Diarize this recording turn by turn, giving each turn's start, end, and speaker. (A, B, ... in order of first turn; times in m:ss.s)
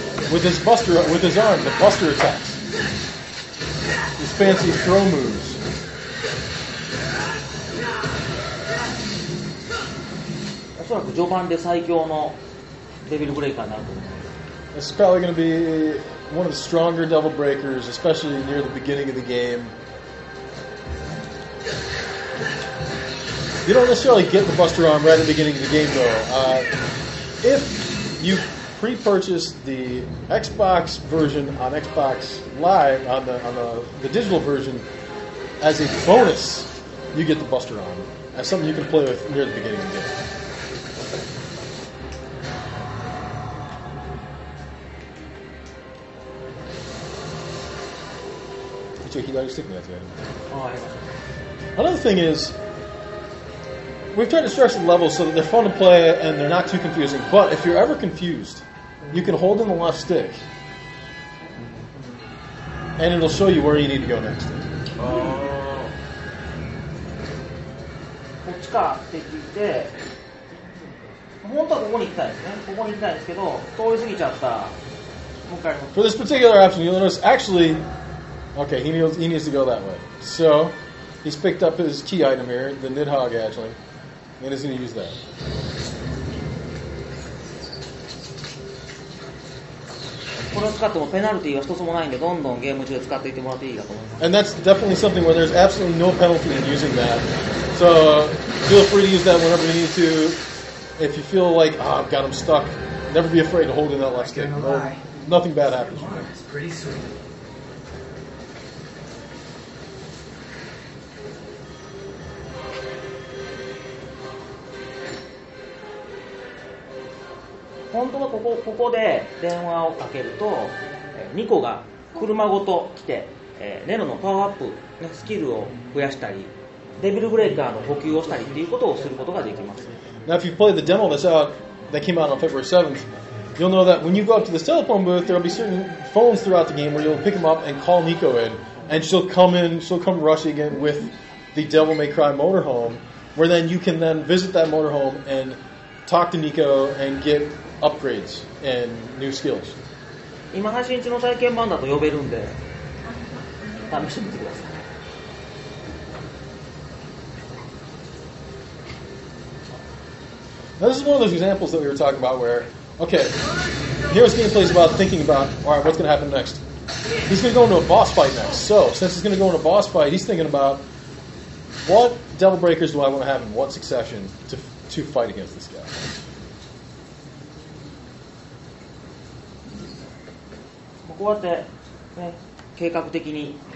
0:00.3-0:02.6 A
0:04.2-0:05.6 A
0:10.8-0:12.4 B
0:13.0-0:14.3 B
0:14.7-0:19.7 A
0:23.6-0:26.7 A
0:27.4-0:34.9 A
0:35.6-0:40.2 A
0:49.0-0:50.3 A
0:50.5-0:51.2 B
0:51.8-0:52.6 A
0:54.1-1:00.4 A
1:03.0-1:04.7 A
1:05.0-1:05.8 B
1:05.0-1:05.6 C
1:08.4-1:09.9 B
1:11.4-1:14.8 B
1:15.4-1:16.0 B
1:15.9-1:17.8 A
1:18.5-1:23.8 A
1:24.4-1:25.2 A
1:30.5-1:34.2 B
1:34.2-1:40.4 A
1:41.0-1:46.3 A
1:44.1-1:45.0 C
1:45.6-1:47.2 C
1:57.9-2:10.0 B
2:10.2-2:29.8 A
2:30.5-2:32.6 B
2:33.8-2:34.8 B
2:40.8-2:46.6 A
2:47.2-2:50.8 A
2:51.8-2:56.1 A
3:01.0-3:03.6 B